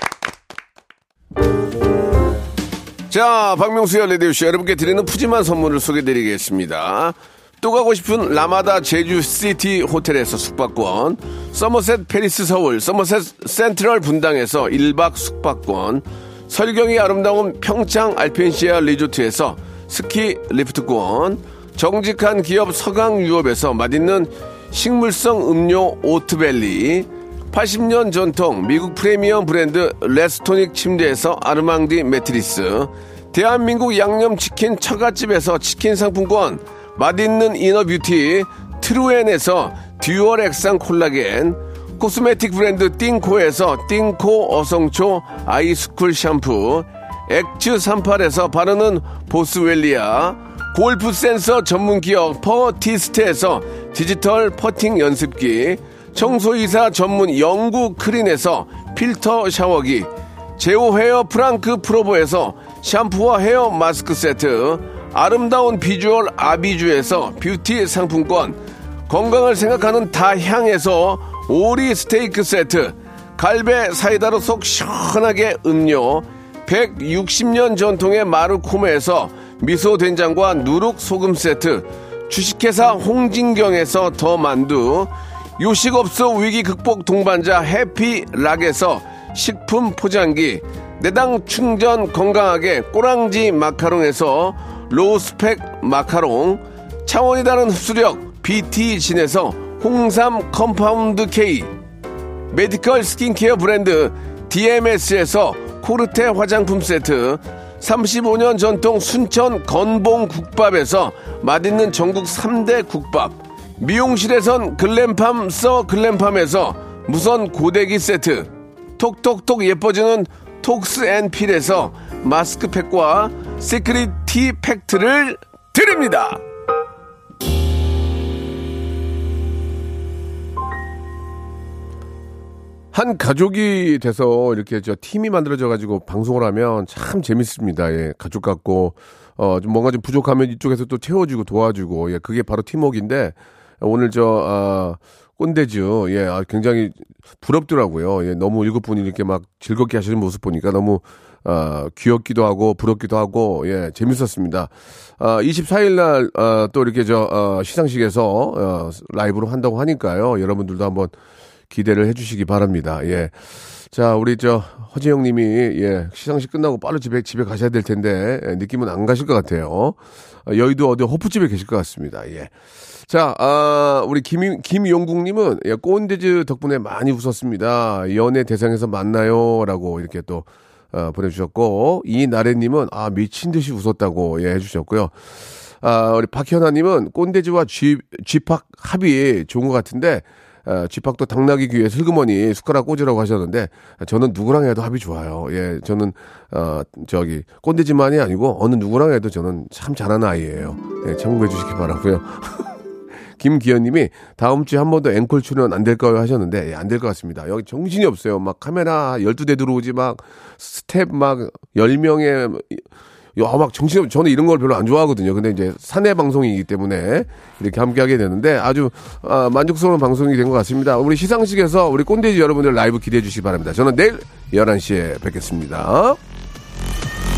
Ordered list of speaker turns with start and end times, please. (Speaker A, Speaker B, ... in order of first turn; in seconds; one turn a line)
Speaker A: 3.1-101.7
Speaker A: 102.5-126.4
Speaker A: 132.9-161.1
Speaker A: 161.7-163.3
Speaker A: 163.9-172.5
Speaker A: 173.1-185.1
Speaker A: 185.8-202.7
Speaker A: 203.4-212.8
Speaker A: 213.4-226.2